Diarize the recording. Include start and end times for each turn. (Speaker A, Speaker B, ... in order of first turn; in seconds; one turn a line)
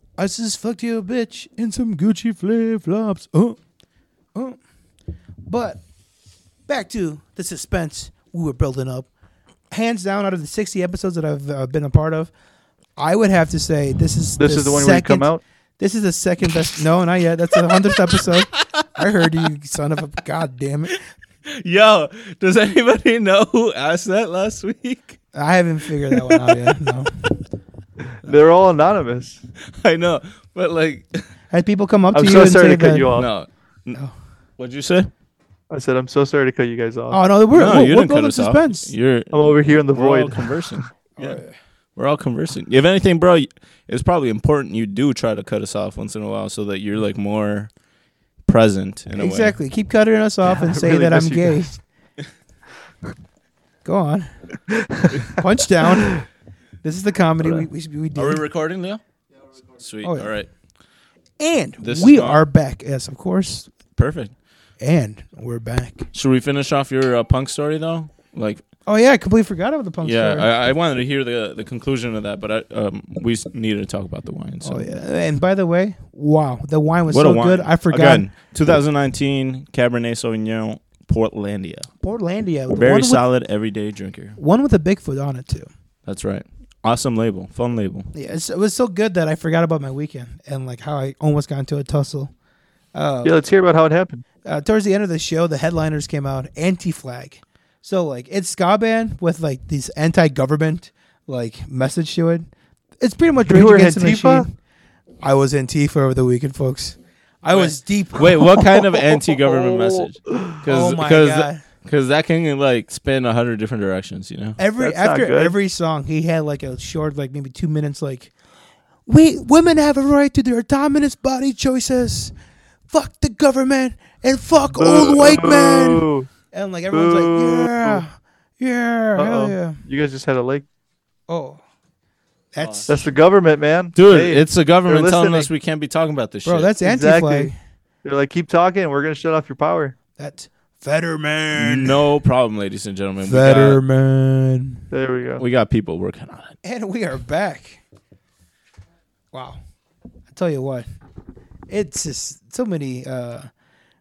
Speaker A: 0.2-3.6
Speaker A: 5.5-5.8
Speaker A: 6.7-9.1
Speaker A: 9.7-12.3
Speaker A: 13.0-21.0
Speaker B: 14.4-15.4
Speaker C: 21.5-25.2
Speaker A: 25.3-27.4
Speaker C: 26.1-26.7
Speaker B: 28.2-29.4
Speaker C: 29.7-31.2
Speaker A: 31.5-33.1
Speaker B: 32.1-33.3
Speaker C: 33.1-34.0
Speaker C: 34.6-35.1
Speaker B: 35.7-37.2
Speaker A: 37.1-38.9
Speaker C: 37.5-41.4
Speaker B: 39.3-40.8
Speaker A: 41.2-41.5
Speaker C: 42.0-47.7
Speaker C: 48.4-49.6
Speaker A: 49.1-51.8
Speaker B: 50.4-51.7
Speaker A: 53.8-54.3
Speaker B: 54.7-55.2
Speaker A: 55.3-56.2
Speaker A: 56.8-58.4
Speaker C: 58.1-59.0
Speaker C: 59.8-60.5
Speaker A: 60.0-60.3
Speaker A: 61.4-63.7
Speaker C: 61.8-62.4
Speaker C: 63.9-64.3
Speaker A: 64.8-66.1
Speaker C: 66.1-68.6
Speaker A: 68.8-70.5
Speaker C: 70.0-74.8
Speaker A: 74.6-78.3
Speaker C: 77.1-81.9
Speaker A: 82.0-83.2
Speaker C: 82.7-84.4
Speaker A: 84.4-85.7
Speaker C: 86.0-88.1
Speaker A: 88.1-92.3
Speaker A: 92.9-93.3
Speaker B: 93.2-94.2
Speaker A: 94.4-102.5
Speaker A: 103.0-104.5
Speaker B: 103.5-104.5
Speaker A: 105.2-108.6
Speaker C: 107.5-114.6
Speaker B: 108.6-110.6
Speaker A: 110.6-111.6
Speaker A: 114.6-118.3
Speaker B: 114.8-115.5
Speaker A: 119.1-122.3
Speaker A: 122.9-129.8
Speaker B: 124.8-126.3
Speaker B: 126.9-128.0
Speaker B: 129.2-130.7
Speaker A: 131.3-131.6
Speaker A: 132.5-133.1
Speaker C: 132.6-132.9
Speaker B: 132.9-135.5
Speaker C: 133.9-136.7
Speaker A: 136.4-137.5
Speaker B: 136.8-137.5
Speaker B: 138.0-139.9
Speaker A: 140.2-142.0
Speaker C: 141.5-143.8
Speaker A: 143.2-144.8
Speaker B: 144.9-145.4
Speaker C: 145.4-146.5
Speaker A: 146.6-147.8
Speaker A: 149.3-149.6
Speaker A: 150.3-150.8
Speaker A: 151.7-153.5